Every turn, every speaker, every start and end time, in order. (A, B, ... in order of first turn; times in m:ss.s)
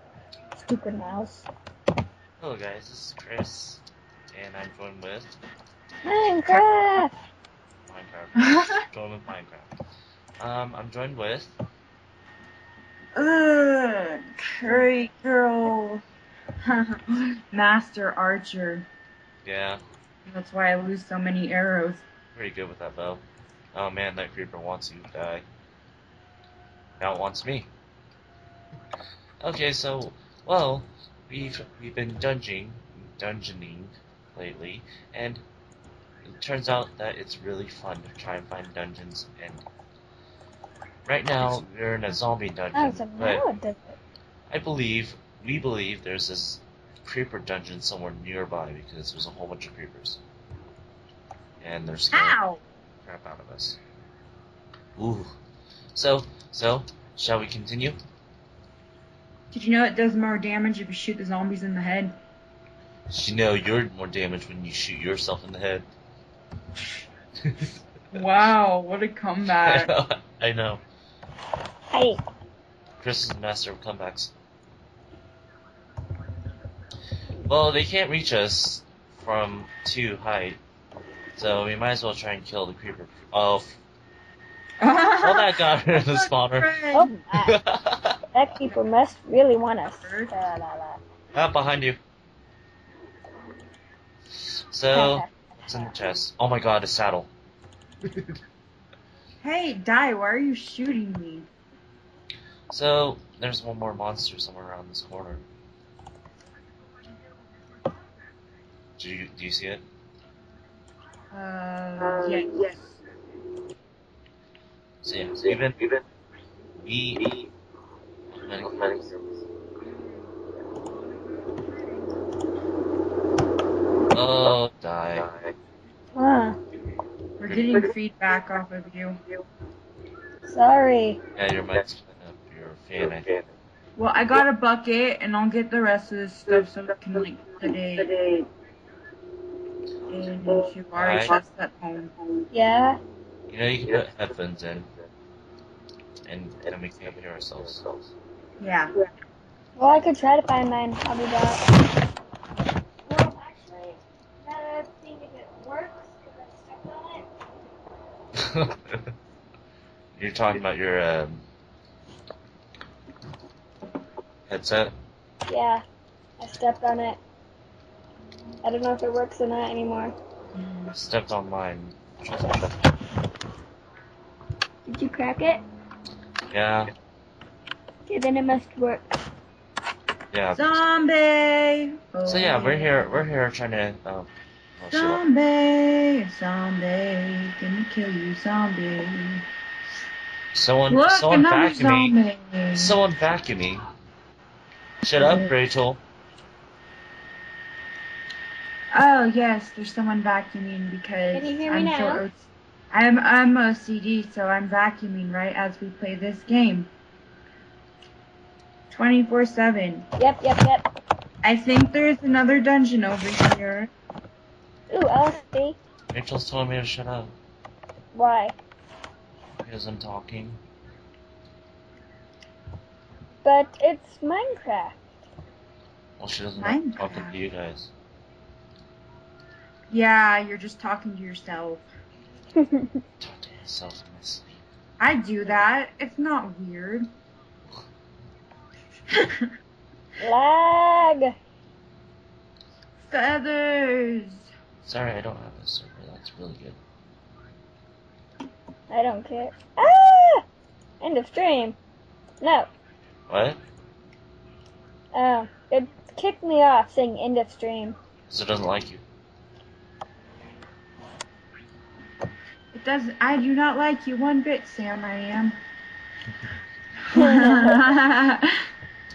0:00.5-0:01.5 A
0:02.4-0:05.4 B
0:06.0-0:07.1 A
0:07.9-0:09.7 B
0:08.4-0:08.8 C
0:10.4-0:11.5 B
0:13.1-0:16.0 C
0:16.6-0:18.9 C
0:19.4-0:19.8 B
0:20.2-0:22.0 C
0:22.3-0:23.2 B
0:23.7-0:25.4 B
0:27.0-0:27.7 B
0:29.4-0:35.4 B
0:36.2-0:39.6 B
0:41.0-0:43.4 B
0:42.7-0:44.0 A
0:44.5-0:50.2 B
0:51.6-0:52.4 B
0:52.1-0:52.6 C
0:53.0-0:53.8 B
0:55.0-0:55.3 B
0:55.9-0:58.0 B
0:59.5-1:02.1 C
1:03.1-1:05.8 B
1:07.4-1:07.8 B
1:08.1-1:09.9 C
1:09.5-1:10.8 B
1:11.9-1:12.2 A
1:13.0-1:14.3 B
1:17.4-1:20.6 B
1:21.4-1:23.8 B
1:24.8-1:27.1 C
1:25.2-1:26.7 B
1:26.9-1:27.6 A
1:27.4-1:28.2 B
1:28.3-1:31.0 A
1:30.0-1:30.3 C
1:31.3-1:32.0 B
1:34.4-1:37.3 B
1:34.9-1:35.3 A
1:39.4-1:41.5 C
1:42.7-1:45.4 B
1:49.0-1:49.8 B
1:51.3-1:53.0 C
1:55.0-1:55.8 B
1:56.7-1:57.3 B
1:58.3-1:59.1 B
2:04.1-2:05.3 B
2:06.1-2:06.6 A
2:07.4-2:09.2 C
2:10.4-2:11.2 A
2:11.4-2:13.4 B
2:14.0-2:18.2 C
2:20.1-2:22.1 C
2:21.0-2:21.4 B
2:22.5-2:23.0 A
2:23.5-2:24.9 B
2:26.2-2:27.9 B
2:28.6-2:28.9 C
2:29.8-2:31.6 A
2:33.0-2:37.3 A
2:38.3-2:39.1 B
2:40.2-2:41.4 B
2:44.5-2:44.9 B
2:45.5-2:45.8 A
2:46.4-2:47.2 A
2:48.6-2:50.1 A
2:50.6-2:50.9 C
2:50.9-2:52.8 B
2:54.8-2:55.6 A
2:56.5-2:56.9 B
2:58.0-2:59.1 A
3:00.3-3:00.8 B
3:00.5-3:03.2 C
3:02.2-3:05.2 B
3:04.9-3:09.4 C
3:10.5-3:12.1 B
3:10.9-3:13.0 C
3:12.7-3:13.8 B
3:15.0-3:16.0 B
3:15.2-3:15.5 C
3:18.9-3:26.9 C
3:21.3-3:22.2 A
3:28.9-3:30.1 C
3:30.2-3:30.8 A
3:31.4-3:33.9 C
3:34.9-3:35.8 A
3:36.1-3:37.3 B
3:38.1-3:38.6 A
3:39.6-3:40.6 B
3:43.4-3:45.0 A
3:46.2-3:47.9 B
3:46.6-3:47.4 C
3:49.9-3:51.9 C
3:52.6-3:53.0 A
3:53.2-3:54.6 B
3:55.0-3:57.1 C
3:59.1-3:59.5 C
4:00.2-4:01.3 A
4:03.1-4:04.5 C
4:04.8-4:06.8 B
4:08.9-4:10.4 A
4:11.0-4:11.8 A
4:12.4-4:12.7 A
4:13.3-4:13.6 B
4:15.1-4:18.0 A
4:18.3-4:19.0 B
4:22.7-4:25.6 C
4:27.1-4:28.6 C
4:27.1-4:27.9 A